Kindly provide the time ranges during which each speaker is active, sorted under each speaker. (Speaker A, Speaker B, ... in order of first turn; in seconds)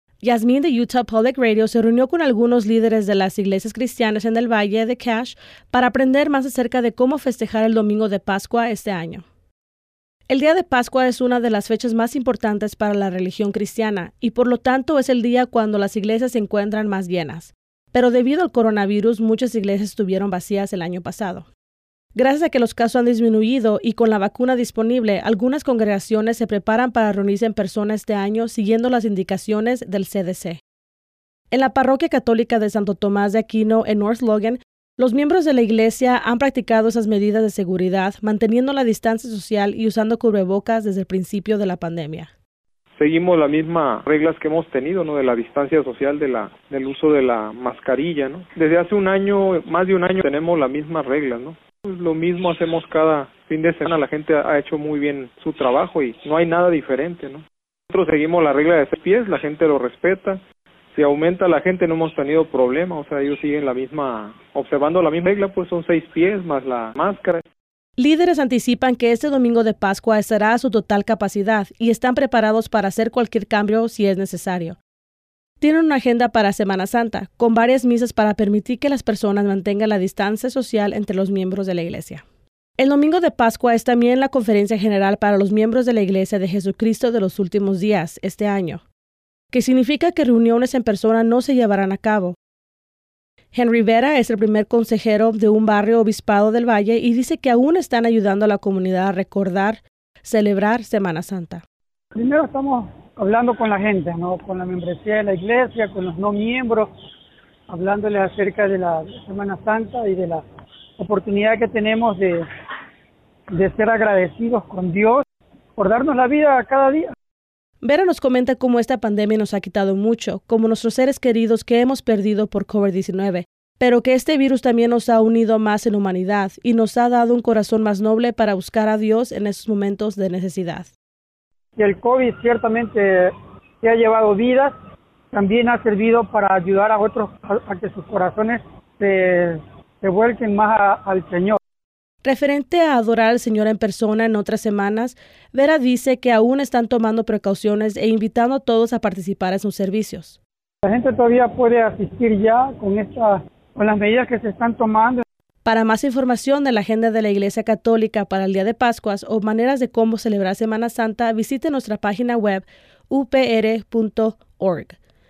Speaker A: 0.2-9.2, 10.3-21.5, 22.1-30.6, 31.5-42.3, 68.0-74.8, 75.6-82.2, 82.8-88.8, 89.5-92.3, 93.5-101.6, 117.8-130.9, 142.2-150.4, 155.6-165.0
Speaker B: 43.0-60.4, 60.9-67.4
Speaker C: 102.1-106.9, 107.7-110.4, 111.0-112.5, 113.5-115.2, 115.8-117.1, 131.8-134.7, 135.3-141.6, 150.8-155.2